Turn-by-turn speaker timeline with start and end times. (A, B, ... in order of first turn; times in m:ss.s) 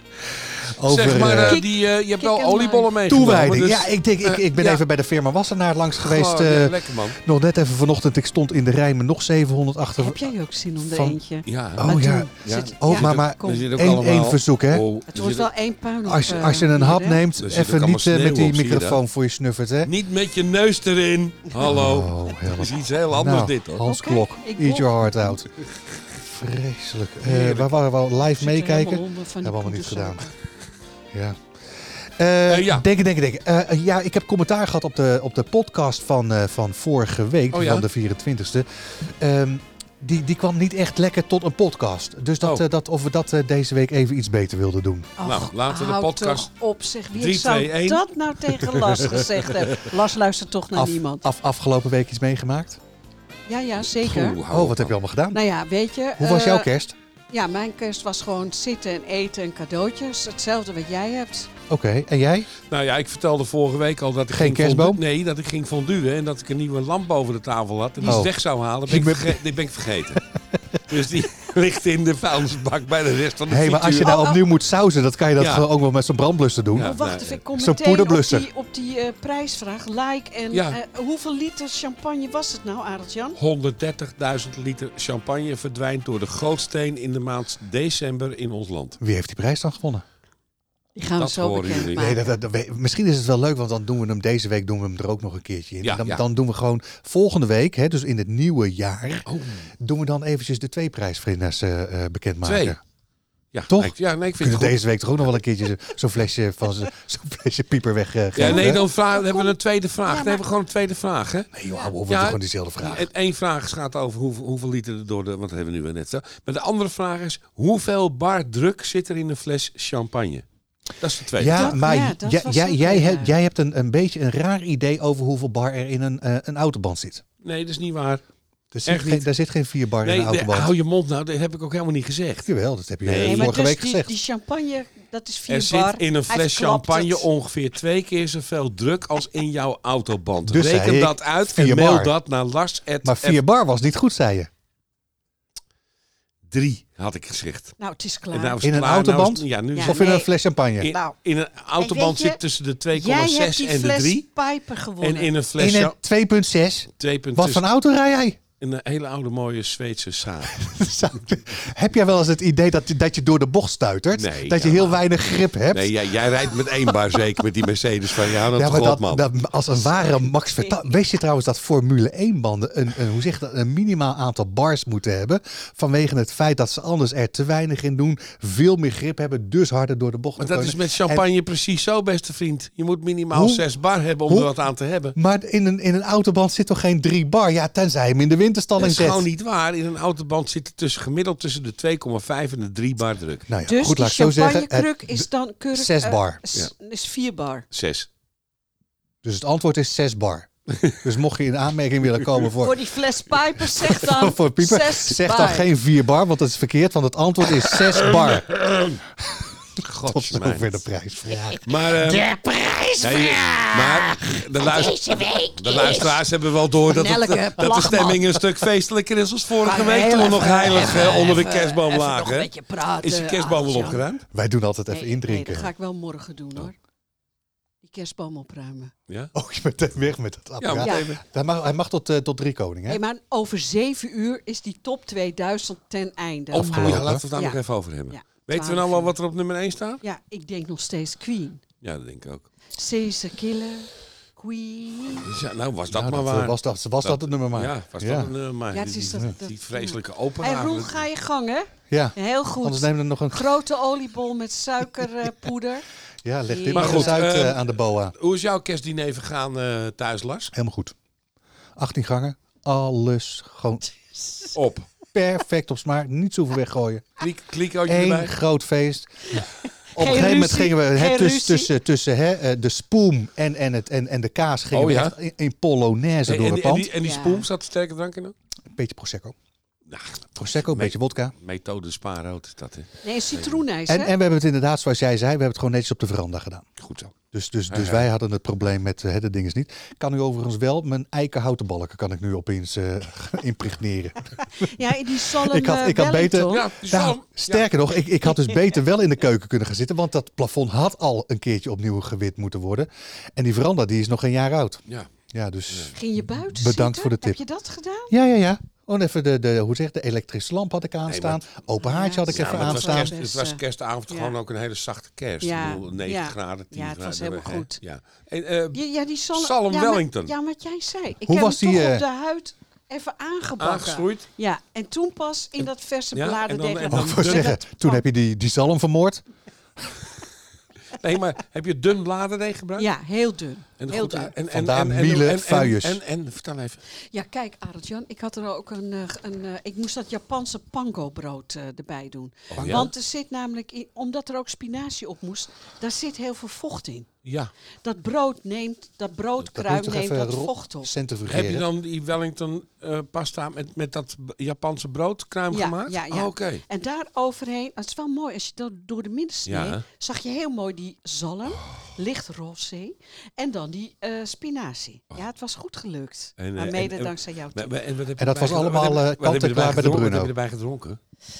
0:00.3-0:01.6 A
0:00.8-0:04.8 B
0:01.4-0:02.9 C
0:03.1-0:10.2 A
0:06.0-0:07.2 B
0:10.0-0:13.7 C
0:10.8-0:11.2 A
0:11.4-0:11.9 B
0:11.7-0:14.8 A
0:12.4-0:15.5 B
0:15.1-0:17.2 C
0:16.0-0:19.9 A
0:17.4-0:19.0 B
0:19.8-0:23.9 B
0:21.6-0:25.5 A
0:23.8-0:24.9 C
0:25.6-0:25.9 B
0:26.1-0:30.3 A
0:27.2-0:27.7 B
0:28.4-0:30.3 C
0:31.1-0:45.1 A
0:32.5-0:32.8 B
0:37.5-0:37.8 B
0:45.2-0:51.2 C
0:45.2-0:46.5 B
0:47.1-0:49.9 B
0:50.7-0:52.8 A
0:53.5-0:54.4 C
0:53.9-0:54.9 B
0:54.5-0:55.4 A
0:55.3-0:56.7 C
0:56.2-0:56.9 A
0:57.3-1:01.5 C
1:01.7-1:02.5 A
1:02.7-1:10.2 B
1:04.3-1:05.0 A
1:08.0-1:08.3 A
1:08.8-1:09.4 A
1:10.8-1:14.1 B
1:13.5-1:17.0 A
1:14.0-1:14.4 C
1:15.4-1:15.7 B
1:16.7-1:17.4 B
1:16.8-1:23.4 C
1:17.5-1:18.5 A
1:20.5-1:20.8 B
1:23.4-1:29.0 B
1:29.0-1:30.0 A
1:30.9-1:32.3 C
1:31.2-1:32.1 B
1:31.8-1:42.8 A
1:35.8-1:36.2 B
1:39.3-1:39.7 B
1:42.4-1:42.8 B
1:43.5-1:44.8 B
1:43.7-1:48.8 A
1:48.3-1:51.5 B
1:48.4-1:50.4 C
1:51.5-1:53.1 A
1:52.1-2:00.4 B
2:01.0-2:01.8 B
2:01.4-2:07.2 A
2:01.4-2:03.3 C
2:07.4-2:08.2 B
2:08.7-2:10.7 A
2:08.8-2:09.3 B
2:10.0-2:12.5 B
2:12.4-2:14.1 A
2:13.0-2:13.6 B
2:13.2-2:17.3 C
2:15.5-2:23.4 B
2:20.5-2:22.1 A
2:23.0-2:24.5 A
2:26.4-2:27.8 B
2:27.8-2:28.6 C
2:28.3-2:30.1 B
2:28.6-2:30.9 A
2:29.7-2:30.3 C
2:30.8-2:34.3 B
2:30.8-2:31.1 C
2:31.8-2:32.4 C
2:32.9-2:35.3 C
2:35.0-2:35.9 B
2:35.6-2:38.4 A
2:37.0-2:37.6 B
2:38.6-2:40.7 B
2:40.5-2:46.1 A
2:44.1-2:49.3 B
2:48.3-3:01.2 A
3:00.4-3:05.2 B
3:03.3-3:03.6 A
3:05.1-3:09.3 A
3:08.8-3:13.5 B
3:13.5-3:16.4 A
3:13.7-3:17.6 C
3:17.7-3:18.1 B
3:19.2-3:20.5 A
3:21.0-3:22.9 A
3:22.6-3:25.7 C
3:23.6-3:28.6 A
3:28.0-3:29.0 B
3:29.8-3:30.8 B
3:30.0-3:31.6 A
3:31.4-3:36.2 C
3:31.6-3:32.2 B
3:33.0-3:42.5 B
3:36.9-3:38.2 C
3:39.6-3:44.0 C
3:43.0-3:44.2 B
3:44.3-3:45.7 A
3:44.9-3:46.7 C
3:47.8-3:48.9 C
3:49.3-3:53.0 A
3:50.6-3:51.2 B
3:50.8-3:51.1 C
3:52.9-3:59.1 C
3:56.5-4:00.0 B
3:56.5-3:57.2 A
4:00.0-4:01.6 C
4:01.8-4:02.5 B
4:02.7-4:05.3 C
4:05.2-4:11.0 B
4:05.9-4:08.3 A
4:08.7-4:15.8 C
4:11.9-4:13.5 A
4:16.2-4:18.1 A
4:16.5-4:17.2 C
4:16.7-4:20.5 B
4:20.5-4:20.9 A
4:21.8-4:23.9 A
4:24.2-4:24.5 C
4:24.5-4:24.9 B
4:25.1-4:27.2 A
4:27.2-4:28.3 B
4:27.8-4:29.4 A
4:29.4-4:31.7 C
4:29.9-4:36.9 A
4:34.7-4:35.2 B
4:36.3-4:38.3 B
4:37.0-4:37.5 C
4:38.7-4:39.3 A
4:39.9-4:43.6 B
4:40.4-4:41.3 A
4:43.0-4:44.1 C
4:43.9-4:46.6 A
4:46.8-4:47.1 B
4:47.3-5:07.4 A
4:47.7-4:48.1 B
4:54.6-4:56.7 C
4:56.5-4:57.7 B
5:05.9-5:08.1 C
5:08.1-5:13.1 A
5:11.1-5:11.4 B
5:11.8-5:14.3 C
5:12.3-5:20.3 B
5:15.4-5:17.8 C
5:18.7-5:28.0 C
5:21.2-5:22.0 A
5:23.6-5:24.3 B
5:26.1-5:27.6 B
5:26.9-5:29.2 A
5:30.9-5:32.9 B
5:32.8-5:34.3 C
5:33.8-5:36.8 B
5:34.5-5:36.0 A
5:37.1-5:47.1 C
5:42.5-5:42.9 B
5:47.2-5:47.5 B
5:47.8-5:50.9 C
5:49.4-5:51.6 A
5:51.3-5:56.6 B
5:55.5-6:07.7 C
5:59.5-5:59.8 B
6:06.4-6:11.0 B
6:08.2-6:10.3 A